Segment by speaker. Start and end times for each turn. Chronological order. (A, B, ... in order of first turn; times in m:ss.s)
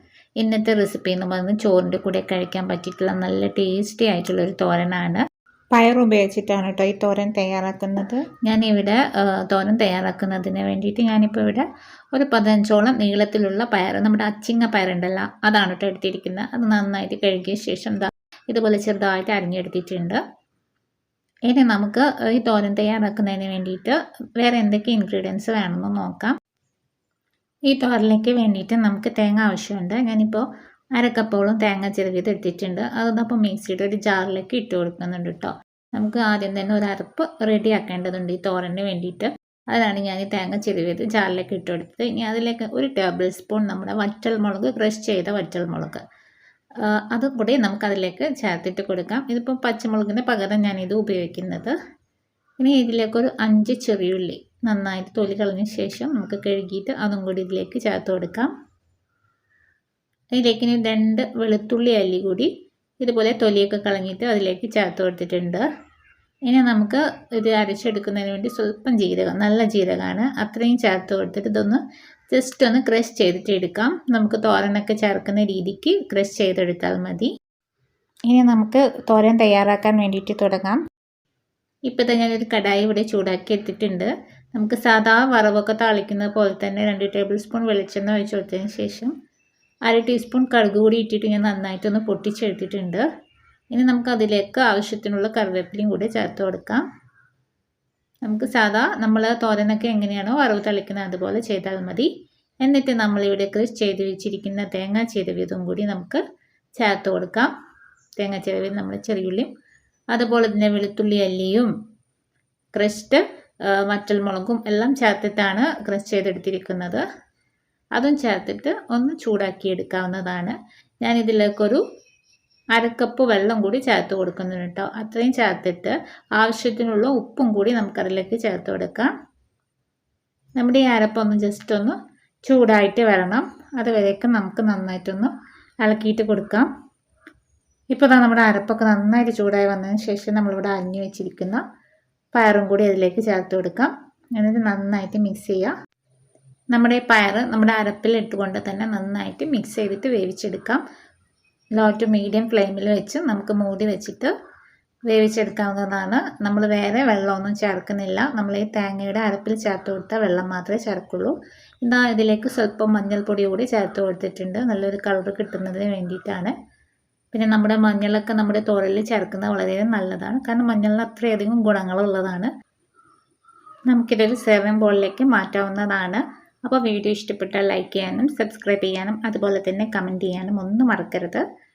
0:00.4-0:20.2 A
0:21.5-0:26.4 A
0:27.7-0:46.0 A
0:46.8-0:51.8 A
0:52.6-0:58.5 A
1:00.4-1:02.5 A
1:03.0-1:05.7 A
1:06.5-1:17.3 A
1:18.3-1:20.8 A
1:21.9-1:29.1 A
1:29.9-1:33.0 A
1:33.7-1:36.8 A
1:38.2-1:42.1 A
1:42.6-1:46.2 A
1:46.8-1:47.5 A
1:48.2-1:49.5 A
1:50.1-1:51.7 A
1:52.7-1:57.0 A
1:58.0-2:01.8 A
2:02.7-2:09.1 A
2:10.6-2:16.7 A
2:17.9-2:21.6 A
2:22.3-2:25.7 A
2:26.7-2:30.8 A
2:31.8-2:34.3 A
2:35.1-2:46.5 A
2:47.3-2:52.5 A
2:53.9-3:01.4 A